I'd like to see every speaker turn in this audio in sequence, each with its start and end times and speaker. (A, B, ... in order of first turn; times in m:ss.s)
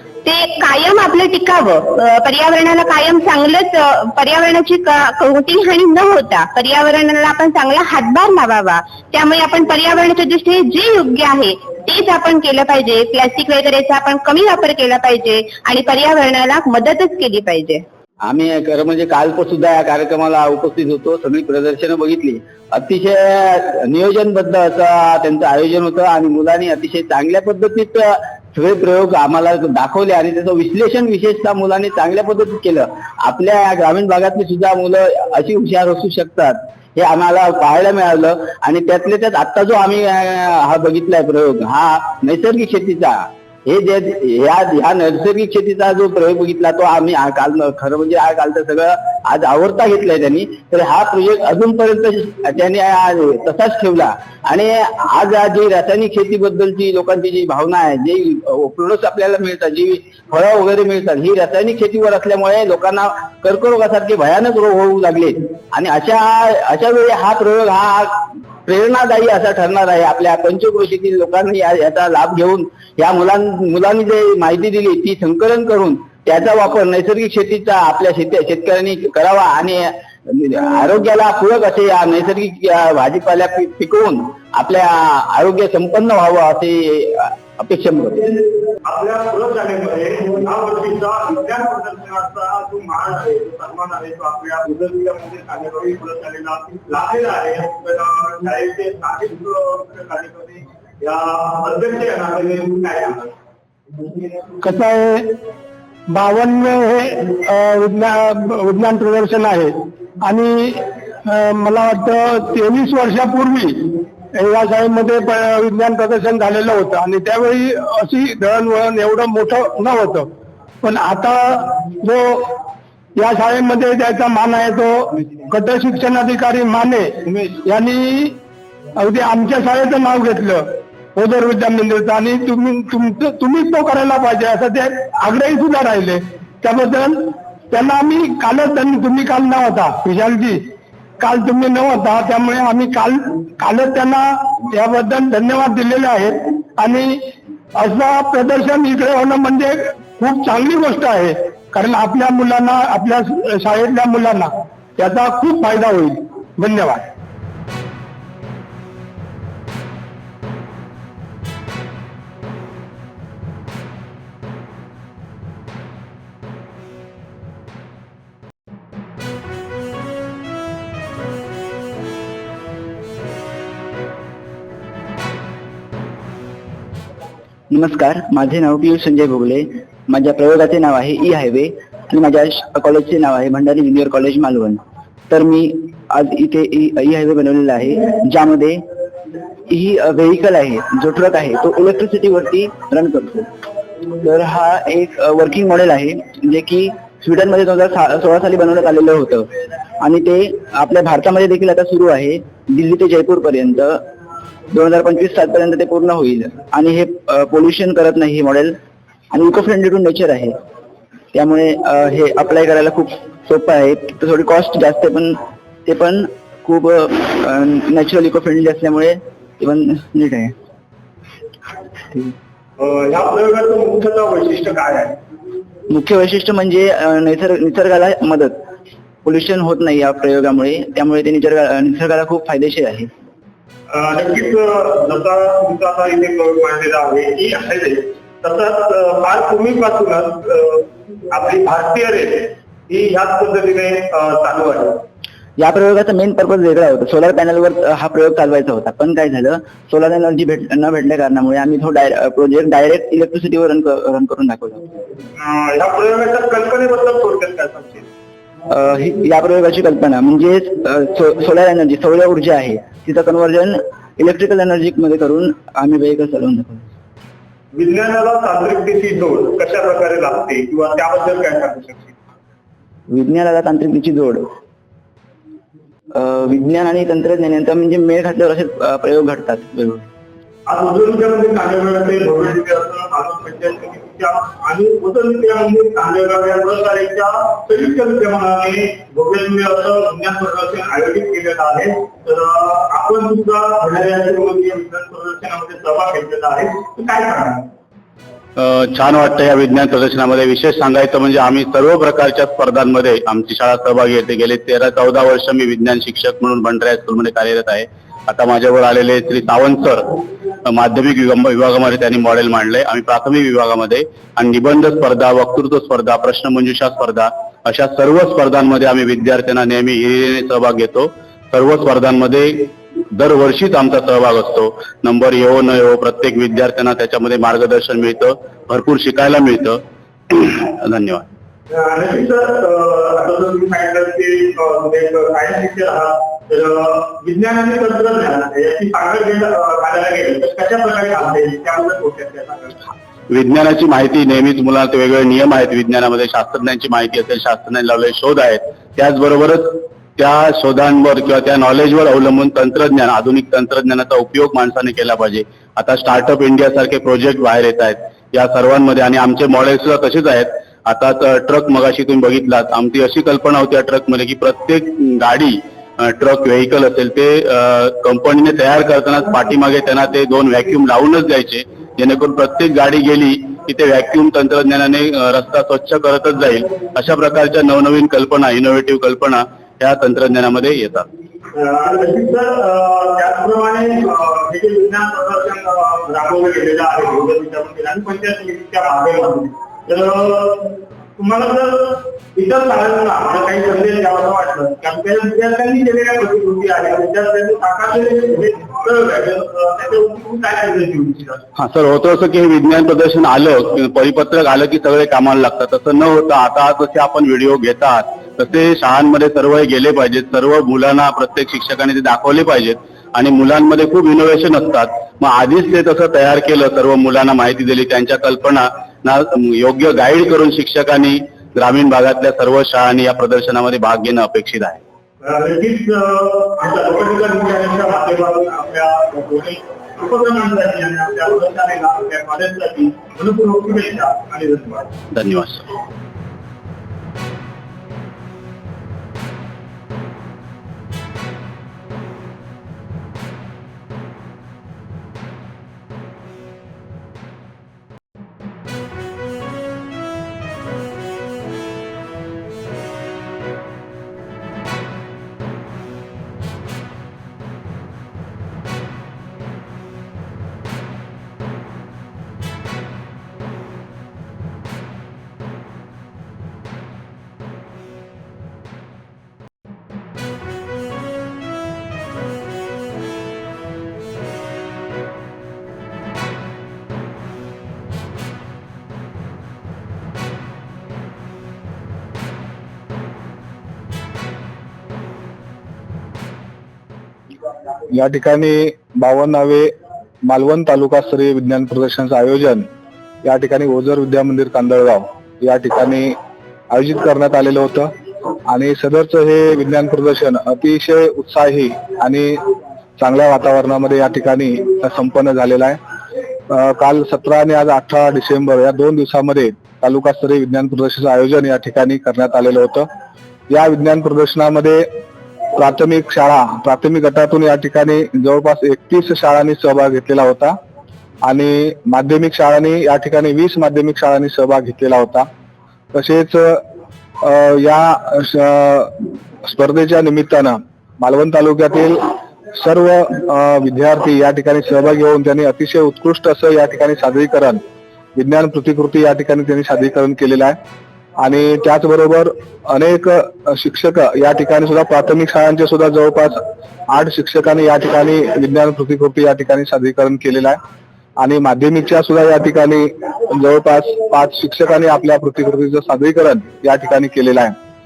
0:00.2-0:17.8 A
0:18.2-1:28.4 B
1:28.8-1:43.3 C
1:44.6-1:45.4 D
1:46.1-2:00.3 D
2:00.8-2:02.6 D
2:03.2-2:08.4 D
2:09.0-2:20.7 D
2:21.2-2:37.0 D
2:57.7-3:08.8 B
3:09.7-3:13.5 B
3:14.2-3:24.1 B
3:24.7-3:28.8 B
3:29.3-3:30.6 B
3:31.3-3:40.5 B
3:42.8-3:45.2 C
3:45.9-3:48.7 B
3:49.2-3:53.1 B
3:53.9-4:05.0 C
4:05.6-4:14.9 B
4:15.4-4:18.1 C
4:18.7-4:26.8 B
4:27.7-4:32.2 C
4:33.1-4:34.5 B
4:36.1-4:40.0 B
4:40.6-4:57.7 C
4:58.6-5:31.3 E
5:31.7-5:42.8 C
5:43.3-6:21.1 E
6:21.5-6:41.4 C
6:41.6-7:04.8 E
7:05.2-7:15.0 C
7:15.1-7:15.7 E
8:07.9-8:09.7 F
8:10.3-8:12.7 F
8:13.2-8:16.2 F
8:16.7-8:17.9 F
8:18.5-8:22.4 F
8:23.0-8:25.8 F
8:26.5-8:32.9 F
8:33.5-8:34.9 F
8:35.6-8:40.6 F
8:41.3-8:45.3 F
8:45.9-8:46.6 F
8:47.2-8:57.6 F
8:58.2-9:00.6 F
9:01.2-9:10.6 F
9:11.2-9:17.5 F